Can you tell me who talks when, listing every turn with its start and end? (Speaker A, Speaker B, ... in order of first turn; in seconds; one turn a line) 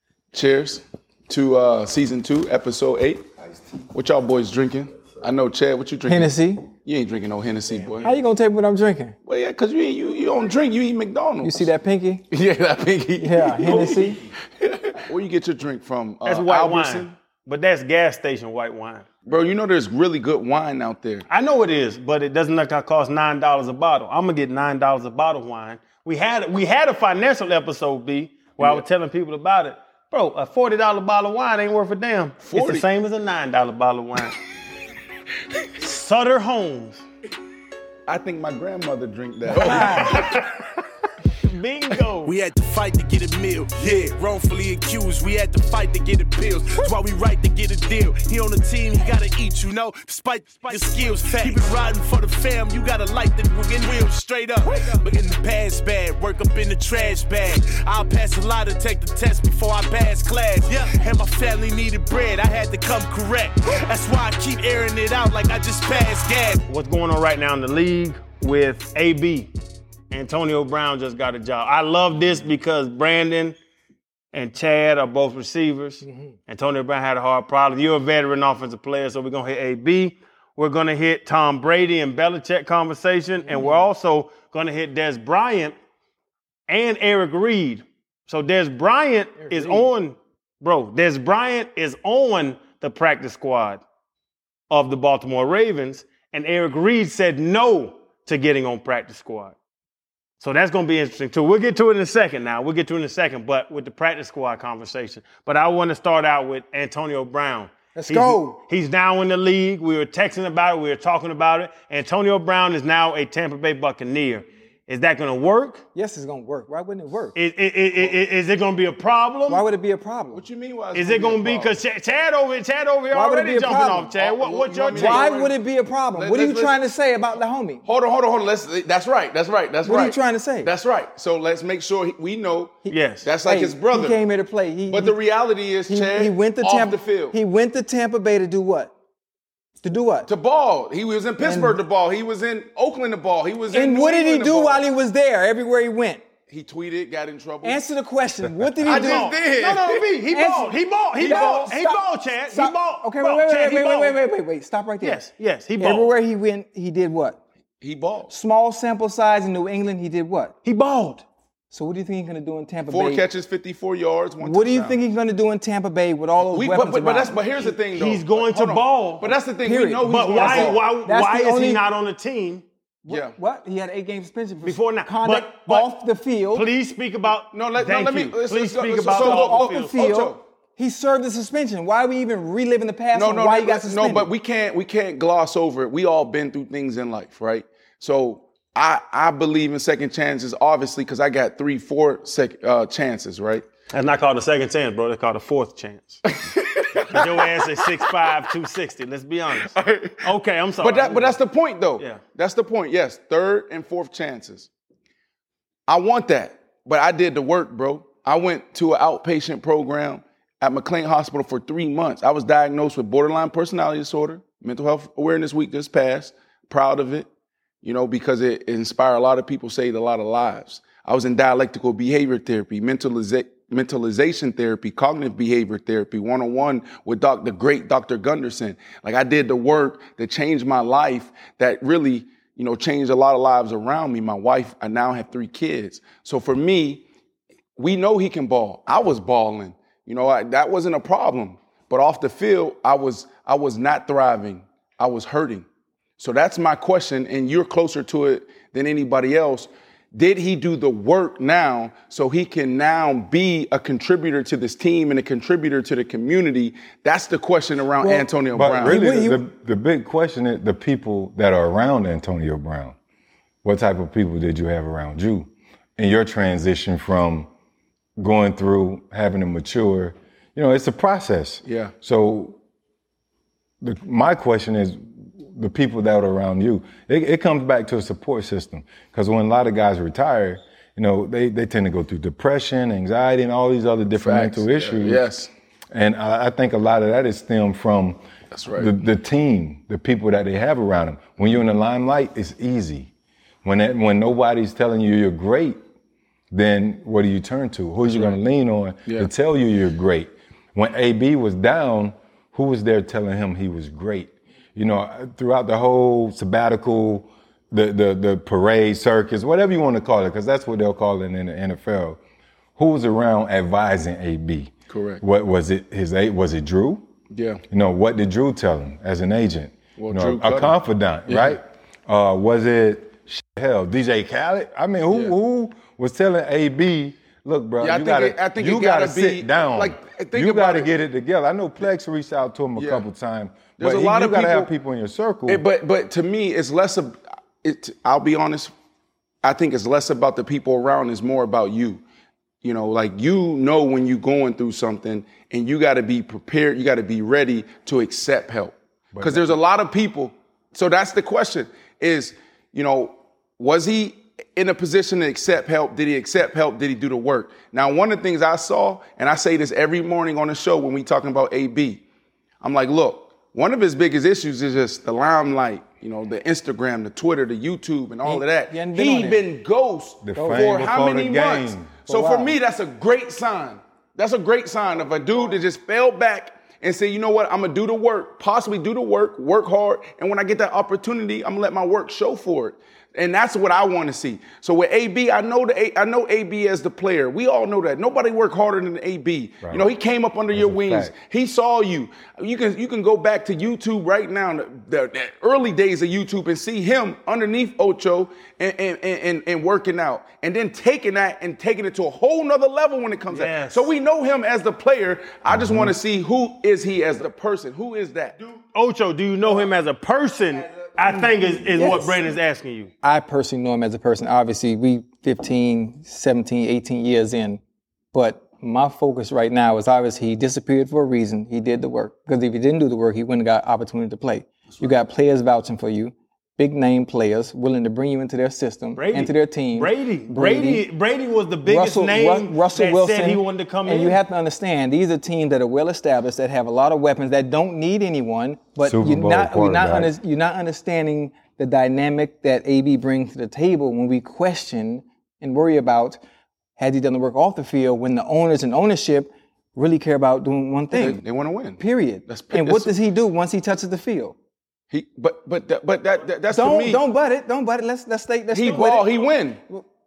Speaker A: 0.3-3.3
Speaker A: 3.9-8.1
Speaker B: 6.0-6.6
Speaker B: 8.0-9.2
Speaker A: 9.2-11.7
Speaker B: 11.4-12.2
Speaker A: 12.3-17.1
Speaker B: 13.2-14.2
Speaker C: 16.2-19.1
Speaker A: 19.2-21.2
Speaker C: 21.3-34.4
Speaker A: 28.6-28.8
Speaker A: 32.4-32.8
Speaker C: 35.8-37.0
Speaker A: 38.1-40.4
Speaker B: 39.5-40.3
Speaker C: 39.6-40.5
Speaker C: 41.4-42.3
Speaker D: 42.2-66.6
Speaker C: 66.7-69.5
Speaker C: 70.1-73.5
Speaker C: 74.3-85.7
Speaker B: 83.4-83.8
Speaker C: 86.7-93.8
Speaker B: 89.4-89.9
Speaker C: 94.7-99.5
Speaker C: 100.4-115.8
Speaker B: 107.9-108.6
Speaker B: 115.9-117.3
Speaker C: 117.3-119.6
Speaker B: 119.5-120.4
Speaker A: 120.3-121.8
Speaker C: 120.9-125.3
Speaker B: 123.1-124.1
Speaker A: 124.1-125.6
Speaker B: 124.9-127.8
Speaker A: 126.1-126.8
Speaker A: 127.8-132.7
Speaker B: 129.8-130.7
Speaker B: 132.8-135.2
Speaker C: 132.9-133.3
Speaker A: 133.2-134.2
Speaker A: 134.9-137.3
Speaker B: 135.9-138.9
Speaker B: 139.8-140.3
Speaker A: 140.2-144.8
Speaker B: 141.4-141.8
Speaker B: 143.7-146.2
Speaker A: 146.5-147.8
Speaker B: 147.6-149.3
Speaker A: 148.8-150.1
Speaker C: 148.8-154.2
Speaker B: 150.3-155.2
Speaker A: 151.2-151.7
Speaker C: 155.0-156.1
Speaker B: 155.8-157.4
Speaker A: 157.8-158.3
Speaker B: 158.3-160.5
Speaker C: 160.6-161.2
Speaker B: 161.7-163.2
Speaker A: 162.9-165.0
Speaker B: 164.4-167.7
Speaker A: 166.5-170.8
Speaker C: 167.9-169.3
Speaker B: 169.6-171.8
Speaker C: 170.1-172.6
Speaker B: 173.1-176.7
Speaker A: 173.1-173.3
Speaker C: 174.6-175.9
Speaker C: 176.5-180.2
Speaker A: 177.5-180.4
Speaker B: 179.1-184.3
Speaker A: 183.1-193.6
Speaker C: 193.9-196.2
Speaker A: 196.3-198.3
Speaker C: 197.1-201.4
Speaker A: 199.7-200.2
Speaker A: 200.8-204.7
Speaker A: 205.9-217.3
Speaker A: 217.8-237.0
Speaker A: 237.8-245.7
Speaker A: 246.2-259.0
Speaker B: 258.0-259.4
Speaker E: 258.5-262.9
Speaker E: 263.6-267.5
Speaker E: 268.2-272.6
Speaker A: 271.6-271.9
Speaker E: 273.8-285.2
Speaker A: 284.1-285.5
Speaker E: 285.9-288.2
Speaker A: 288.5-288.9
Speaker E: 288.8-293.1
Speaker E: 293.6-295.8
Speaker E: 296.5-312.2
Speaker A: 298.0-298.3
Speaker E: 312.8-317.0
Speaker A: 314.9-315.2
Speaker A: 317.3-317.6
Speaker E: 317.7-335.6
Speaker A: 320.0-320.7
Speaker A: 321.3-321.6
Speaker A: 327.8-330.9
Speaker A: 332.8-333.0
Speaker A: 333.8-334.7
Speaker A: 335.5-338.7
Speaker A: 339.4-342.0
Speaker A: 342.6-362.0
Speaker E: 349.1-349.6
Speaker A: 362.6-408.4
Speaker B: 368.2-369.4
Speaker E: 370.2-371.9
Speaker B: 370.4-370.7
Speaker B: 372.1-372.6
Speaker E: 390.5-391.1
Speaker C: 403.3-403.9
Speaker E: 405.5-405.9
Speaker C: 408.7-412.9
Speaker B: 411.1-412.2
Speaker B: 413.0-417.6
Speaker B: 418.1-430.8
Speaker C: 428.9-434.2
Speaker B: 431.6-446.2
Speaker E: 438.8-440.1
Speaker B: 446.8-451.2
Speaker A: 450.9-452.9
Speaker B: 451.8-454.3
Speaker A: 454.9-457.0
Speaker B: 456.5-459.8
Speaker A: 458.5-459.6